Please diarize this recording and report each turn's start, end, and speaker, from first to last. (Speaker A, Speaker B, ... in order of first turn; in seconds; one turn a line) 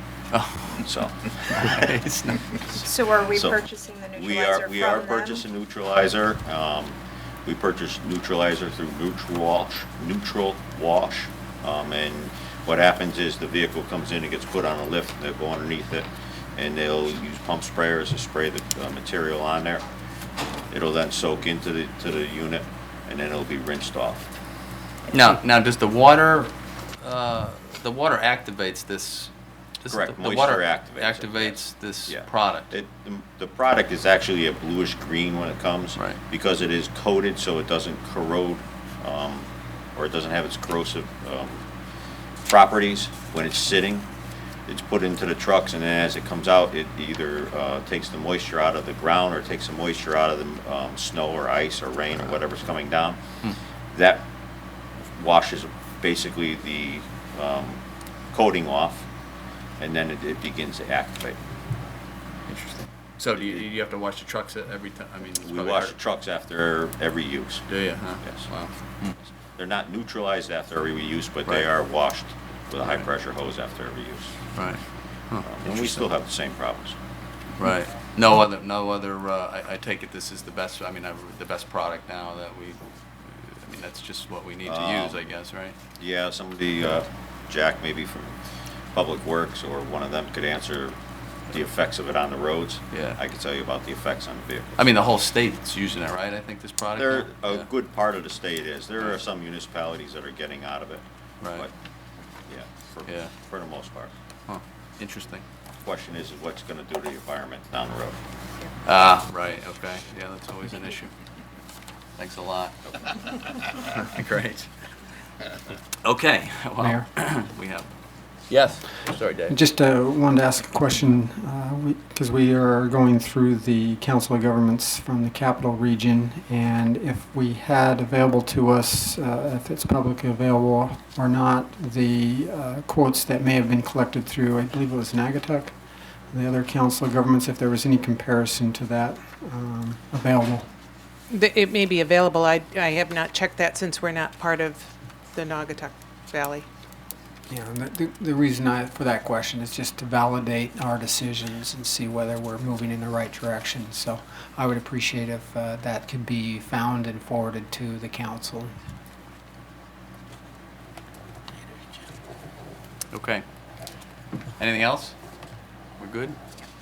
Speaker A: 0.3-0.8
Speaker B: 0.7-1.9
Speaker A: 1.5-2.8
Speaker C: 2.8-5.4
Speaker B: 3.3-3.6
Speaker B: 4.2-19.8
Speaker B: 20.7-24.3
Speaker A: 25.1-32.7
Speaker B: 29.9-41.7
Speaker B: 42.4-44.1
Speaker B: 44.7-53.2
Speaker B: 53.9-54.3
Speaker B: 55.1-57.8
Speaker B: 58.3-59.1
Speaker B: 59.8-61.4
Speaker A: 62.5-66.0
Speaker B: 63.4-63.7
Speaker B: 65.4-67.6
Speaker A: 67.7-69.2
Speaker B: 68.2-68.5
Speaker B: 69.6-74.4
Speaker A: 74.5-76.1
Speaker B: 75.4-77.0
Speaker A: 77.6-85.8
Speaker B: 84.7-85.2
Speaker B: 86.0-88.4
Speaker B: 88.9-91.0
Speaker B: 91.5-94.8
Speaker A: 92.9-93.2
Speaker A: 94.8-97.7
Speaker B: 97.0-101.7
Speaker A: 101.4-101.7
Speaker B: 102.5-104.1
Speaker A: 103.1-103.3
Speaker A: 104.5-105.4
Speaker B: 105.8-108.2
Speaker A: 108.8-111.1
Speaker A: 112.2-112.8
Speaker A: 113.9-114.7
Speaker A: 116.0-117.9
Speaker D: 116.8-117.1
Speaker A: 118.5-119.6
Speaker D: 119.5-135.7
Speaker D: 136.3-140.7
Speaker E: 141.3-146.7
Speaker D: 147.5-158.7
Speaker A: 163.1-163.4
Speaker A: 164.6-165.2
Speaker A: 166.0-166.4